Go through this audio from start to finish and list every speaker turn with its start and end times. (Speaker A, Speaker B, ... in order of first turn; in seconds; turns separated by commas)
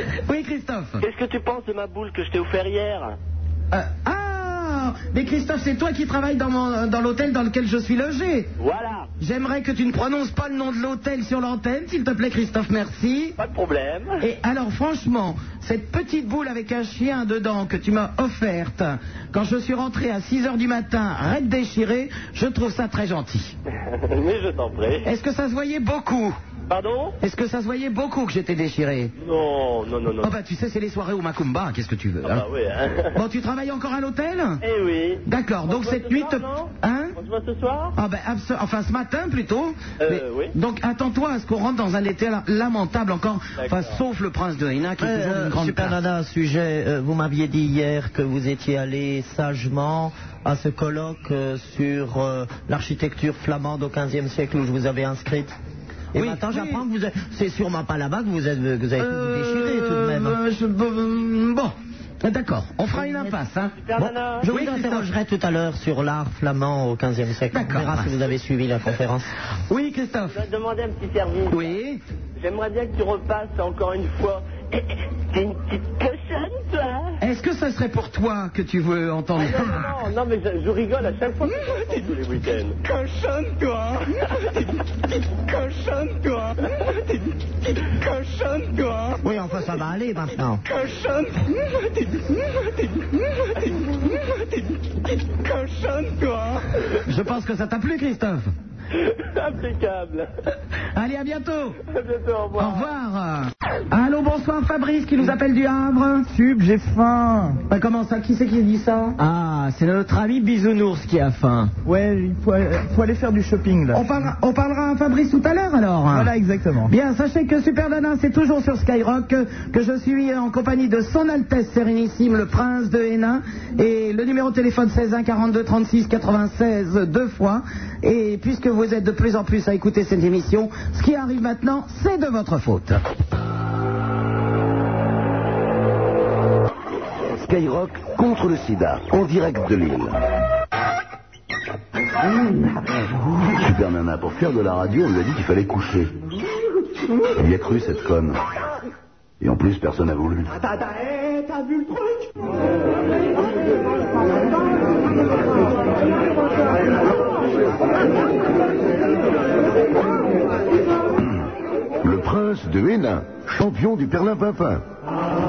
Speaker A: 0.3-1.0, Speaker B: 1.0-3.1, Speaker A: 3.7-8.5, Speaker B: 8.6-9.1, Speaker A: 9.2-13.3, Speaker B: 13.4-14.2, Speaker A: 14.2-23.5, Speaker B: 23.9-25.1, Speaker A: 25.1-26.4, Speaker B: 26.7-27.2, Speaker A: 27.2-29.1, Speaker B: 29.2-30.3, Speaker A: 30.2-32.5, Speaker B: 32.2-33.2, Speaker A: 33.1-34.6, Speaker B: 34.6-38.0, Speaker A: 35.3-37.1, Speaker A: 38.0-46.0, Speaker B: 40.0-40.5, Speaker B: 43.6-44.0, Speaker C: 45.0-55.6, Speaker C: 56.1-60.4, Speaker A: 56.1-56.8, Speaker A: 59.0-63.7, Speaker B: 63.7-64.5, Speaker C: 64.0-69.3, Speaker A: 64.4-65.1, Speaker A: 67.5-68.2, Speaker A: 69.7-70.4, Speaker B: 70.3-71.8, Speaker A: 71.5-72.0, Speaker B: 72.4-77.0, Speaker A: 77.2-79.8, Speaker B: 79.4-82.8, Speaker D: 81.6-82.0, Speaker D: 82.8-89.2, Speaker C: 89.2-90.6, Speaker D: 90.7-96.7, Speaker A: 97.1-98.5, Speaker B: 99.0-100.3, Speaker A: 101.0-101.8, Speaker B: 101.9-102.9, Speaker A: 102.6-106.3, Speaker A: 107.7-109.2, Speaker E: 109.2-111.7, Speaker A: 113.9-116.3, Speaker A: 116.8-133.0, Speaker F: 137.4-140.2, Speaker F: 143.3-146.1, Speaker F: 147.3-148.4, Speaker F: 149.4-150.5, Speaker F: 162.0-164.8